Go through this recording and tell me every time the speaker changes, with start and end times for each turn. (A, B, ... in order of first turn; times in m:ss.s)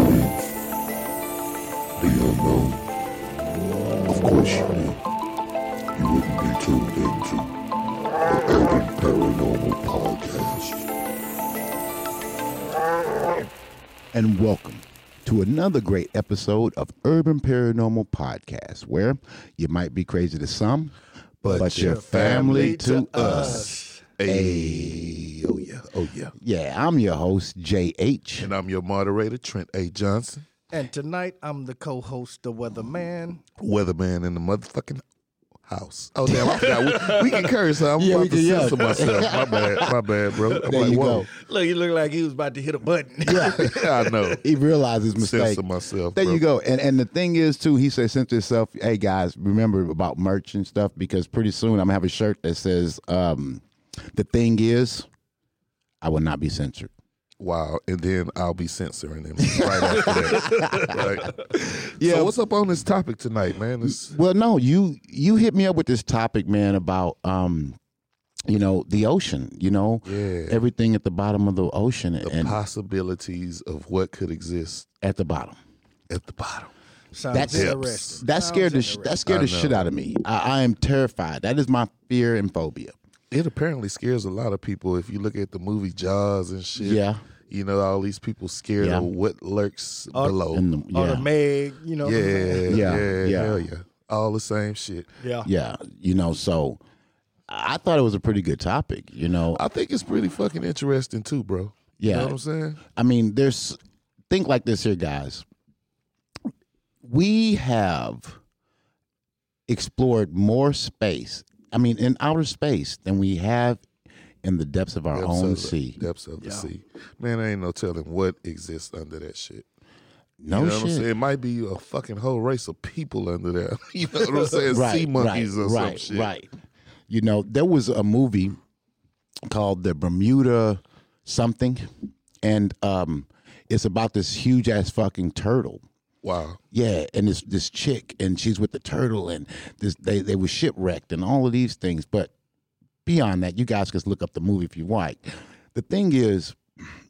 0:02.0-0:02.8 A
0:04.1-0:05.0 A
0:06.0-0:07.4 A
0:08.3-0:10.8 A
0:14.1-0:21.0 B
0:21.4-0:24.0 C
0:21.4-0:26.3 A
0:21.5-0:23.7 B
0:24.2-0:25.2 B
0:26.4-0:28.5 B
0:28.4-0:30.4 A
0:30.7-0:33.4 C
0:33.6-0:35.0 A
0:35.7-0:41.3 A
0:36.3-0:37.4 C
0:38.0-0:39.9 B
0:40.6-0:41.3 B
0:41.0-0:44.2 C
0:43.2-0:43.7 B
0:43.6-0:44.4 A
0:44.4-0:45.6 B
0:45.2-0:46.4 A
0:46.1-0:55.1 B
0:56.0-0:56.9 B
0:57.4-1:04.2 A
0:59.4-1:01.0 B
1:00.0-1:01.0 C
1:02.0-1:02.3 B
1:04.0-1:07.8 B
1:08.5-1:12.6 B
1:10.0-1:10.6 A
1:12.2-1:14.9 A
1:15.0-1:15.6 B
1:16.1-1:16.7 A
1:17.1-1:19.2 C
1:17.3-1:23.0 B
1:17.5-1:18.2 A
1:19.3-1:19.9 A
1:23.3-1:30.7 A
1:26.8-1:27.2 B
1:28.8-1:29.1 B
1:30.5-1:31.3 B
1:30.9-1:32.9 C
1:32.0-1:35.1 A
1:32.7-1:33.6 B
1:35.2-1:35.5 C
1:35.4-1:36.8 B
1:37.5-1:39.6 B
1:39.5-1:42.8 A
1:42.0-1:43.8 B
1:44.3-1:45.4 B
1:47.0-1:48.4 B
1:49.7-1:53.8 B
1:54.4-1:56.0 B
1:55.1-1:59.7 A
1:56.4-1:56.7 C
2:00.4-2:01.1 B
2:00.5-2:06.3 A
2:04.7-2:06.5 B
2:07.1-2:08.6 B
2:09.5-2:11.9 B
2:12.4-2:15.8 B
2:16.2-2:16.6 A
2:16.7-2:22.3 B
2:23.0-2:26.6 B